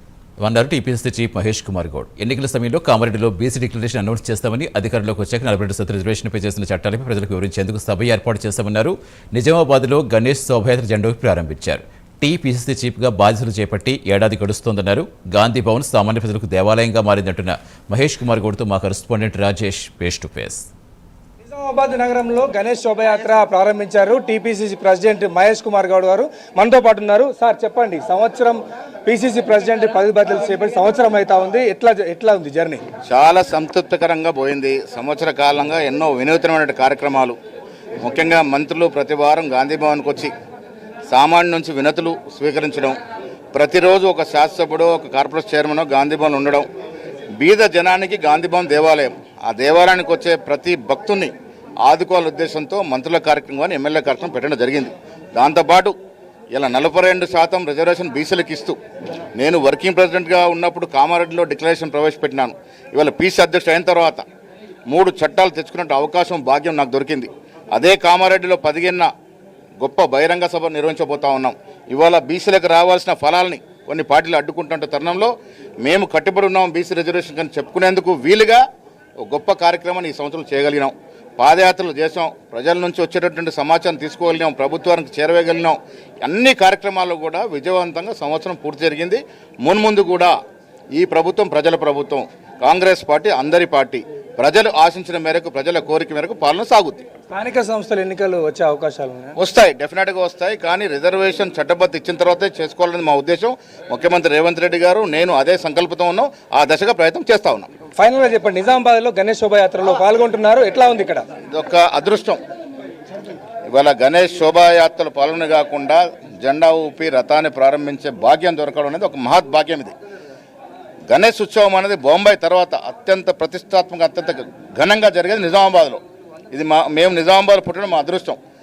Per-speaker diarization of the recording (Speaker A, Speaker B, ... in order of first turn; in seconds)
Speaker A: 0.4-20.6
Speaker B: 21.5-32.8, 97.3-99.4, 108.0-111.2
Speaker C: 33.1-37.4, 38.0-40.3, 41.1-43.0, 43.5-46.6, 47.4-51.3, 51.8-55.9, 56.5-58.8, 59.4-64.2, 64.9-69.1, 69.8-75.3, 75.8-78.6, 79.2-90.3, 90.9-97.0, 99.3-107.7, 111.5-112.4, 113.7-119.9, 121.1-126.0, 126.5-128.4